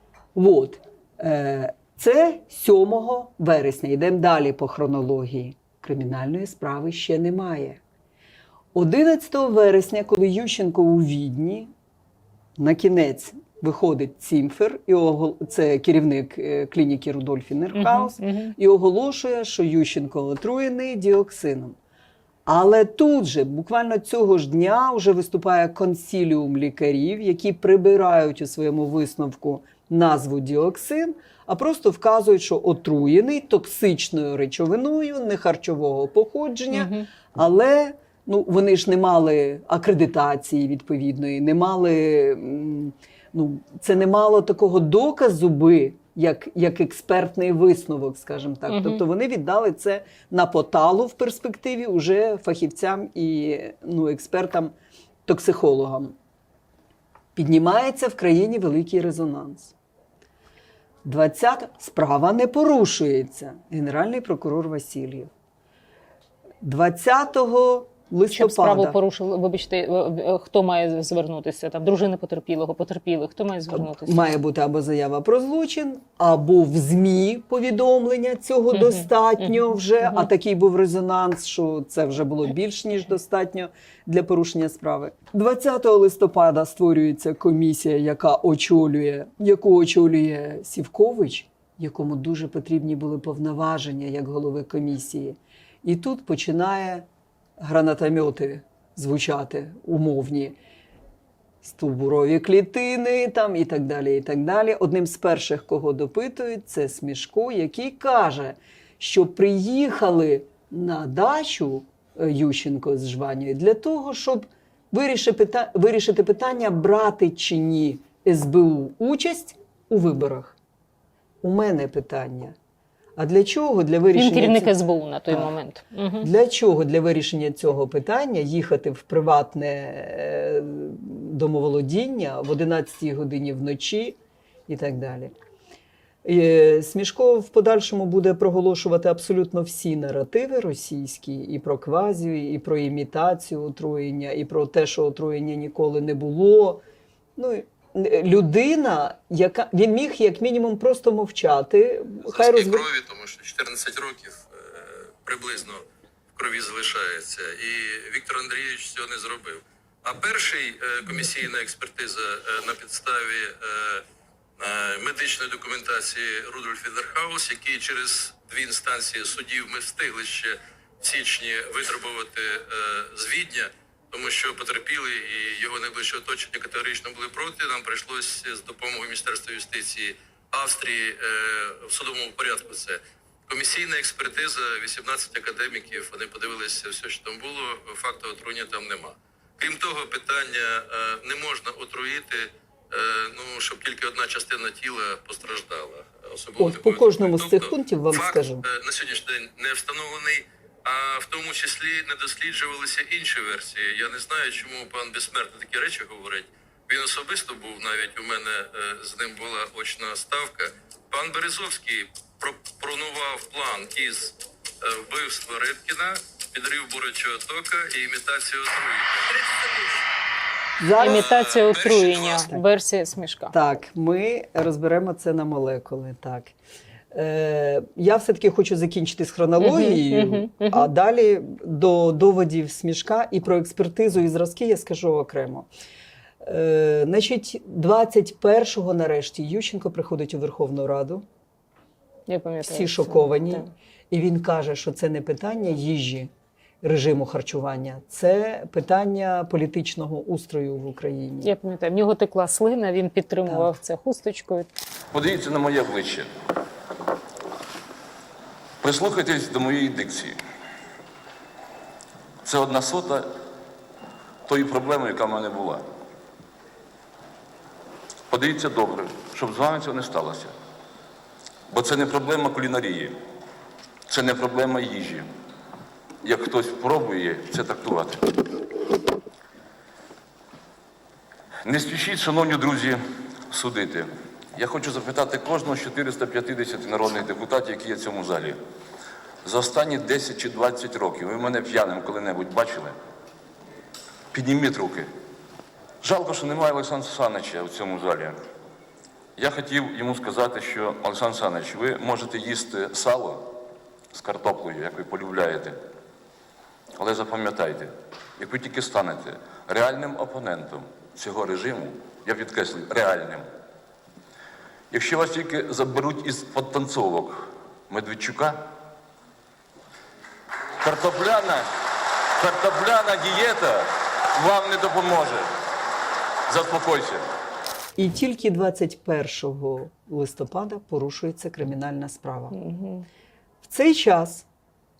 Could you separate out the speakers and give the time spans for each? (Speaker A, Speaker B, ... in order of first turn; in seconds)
Speaker A: 0.3-7.8, 8.7-11.7, 12.6-21.8, 22.4-54.7, 55.2-56.1, 57.3-59.7, 61.0-65.3, 66.6-69.0, 73.7-97.0, 97.6-100.5, 101.6-120.5, 121.4-122.5, 123.2-124.7, 126.2-134.2, 134.7-135.3, 136.2-146.8, 147.4-152.9, 196.6-198.6, 220.8-221.3, 223.5-226.5, 227.1-235.7, 236.4-241.2, 242.6-246.3, 246.8-251.5, 328.0-332.6, 333.6-334.5
Speaker B: 17.7-18.5, 36.7-37.1, 48.7-49.0, 68.3-74.2, 124.1-126.3, 221.0-223.5, 229.6-230.9, 242.3-243.7, 251.4-254.7, 332.5-333.0
Speaker C: 152.3-164.0, 164.6-219.9, 221.0-222.5
Speaker D: 255.1-256.3, 258.8-260.4, 262.4-263.3, 264.4-265.8, 268.3-270.5, 271.7-273.2, 274.1-275.3, 276.2-278.4, 281.6-288.6, 289.4-292.9, 294.3-295.1, 296.0-298.4, 299.4-303.6, 304.1-305.8, 307.0-313.4, 314.9-318.6, 320.8-321.7, 322.4-325.5, 326.5-327.2